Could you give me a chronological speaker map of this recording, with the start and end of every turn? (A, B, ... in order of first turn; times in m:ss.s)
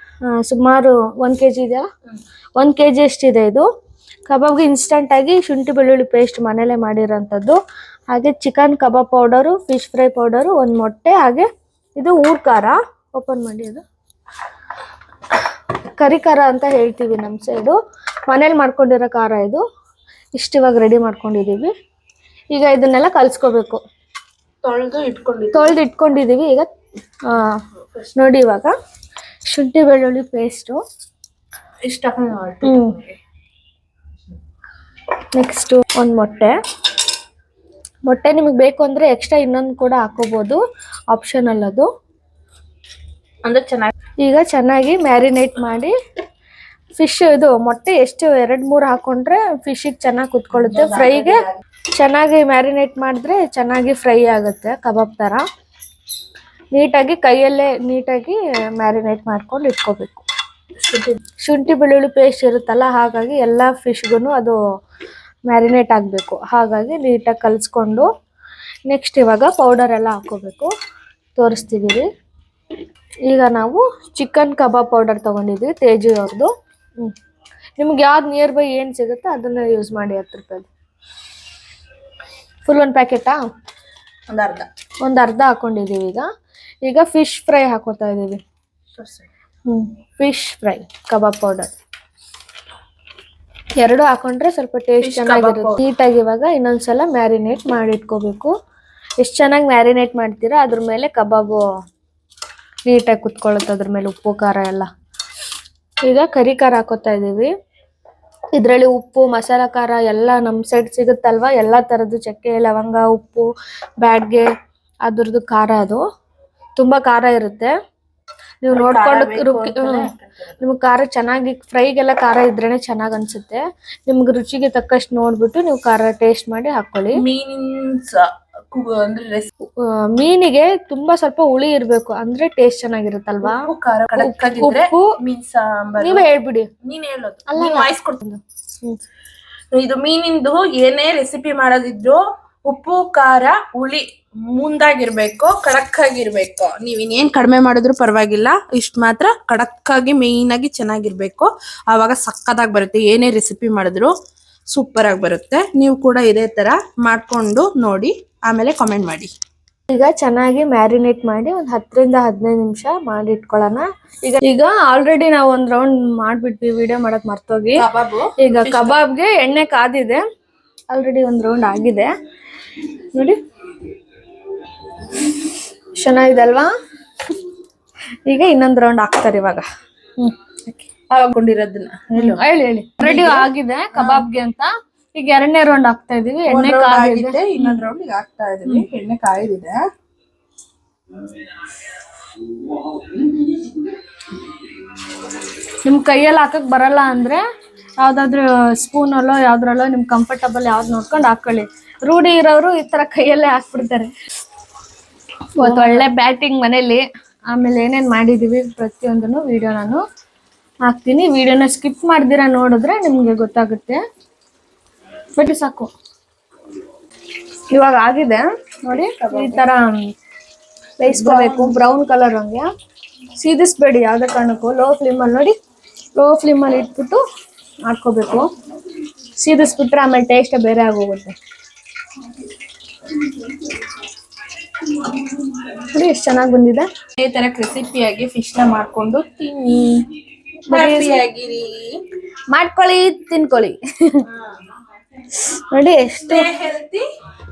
0:00.3-0:01.9 A
0:02.6-0:03.7 A
0:04.3-0:07.6 A
0:08.1-0:13.8 A
0:15.9-0:19.6 A
0:20.4-0:21.7 A
0:22.5-0:23.8 A
0:24.6-0:25.8 B
0:25.5-0:26.7 A
0:27.2-0:27.6 A
0:28.2-0:28.7 A
0:29.5-0:30.8 A
0:31.8-0:33.2 B
0:32.6-0:33.0 A
0:35.3-0:36.6 A
0:38.0-0:40.6 A
0:41.1-0:41.9 A
0:43.4-0:43.9 B
0:44.2-0:45.9 A
0:47.0-0:51.4 A
0:50.9-0:51.5 B
0:52.0-0:55.4 A
0:56.7-1:00.2 A
1:00.9-1:01.2 B
1:01.4-1:04.6 A
1:05.5-1:08.1 A
1:08.9-1:10.7 A
1:11.4-1:12.1 A
1:13.3-1:17.1 A
1:17.8-1:20.7 A
1:22.6-1:23.4 A
1:24.3-1:24.7 B
1:25.0-1:26.3 A
1:26.8-1:28.4 A
1:29.0-1:29.2 B
1:29.7-1:31.7 A
1:33.8-1:38.5 A
1:35.0-1:35.8 B
1:39.2-1:41.6 A
1:42.8-1:44.9 A
1:46.0-1:47.5 A
1:48.5-1:54.5 A
1:55.0-1:56.0 A
1:56.8-1:57.7 A
1:58.6-2:00.1 A
1:58.7-2:00.6 B
2:00.6-2:07.2 A
2:07.1-2:09.5 B
2:09.7-2:15.2 A
2:13.4-2:16.3 B
2:16.0-2:16.7 A
2:16.8-2:18.2 B
2:17.5-2:19.0 A
2:19.7-2:34.1 B
2:34.7-2:39.3 B
2:39.9-2:47.8 A
2:47.7-2:49.0 B
2:48.4-2:50.2 A
2:50.9-2:52.1 A
2:53.1-2:53.4 A
2:56.0-2:56.7 A
2:58.2-2:59.6 A
3:00.2-3:00.8 A
3:01.1-3:02.4 B
3:02.1-3:07.8 A
3:03.0-3:04.2 B
3:06.5-3:09.8 B
3:15.8-3:17.4 A
3:18.0-3:24.1 A
3:25.6-3:30.0 A
3:25.6-3:26.0 B
3:30.8-3:34.0 A
3:35.3-3:35.9 A
3:37.7-3:40.1 A
3:39.2-3:39.6 B
3:41.0-3:42.7 A
3:41.0-3:41.8 B
3:43.4-3:45.5 A
3:46.2-3:47.2 A
3:47.8-3:48.5 A
3:49.4-3:51.3 A
3:55.7-3:56.9 A
3:57.2-4:00.1 B
4:00.7-4:01.2 A
4:00.7-4:02.0 B
4:02.5-4:04.3 A
4:05.3-4:06.5 A
4:06.2-4:07.1 B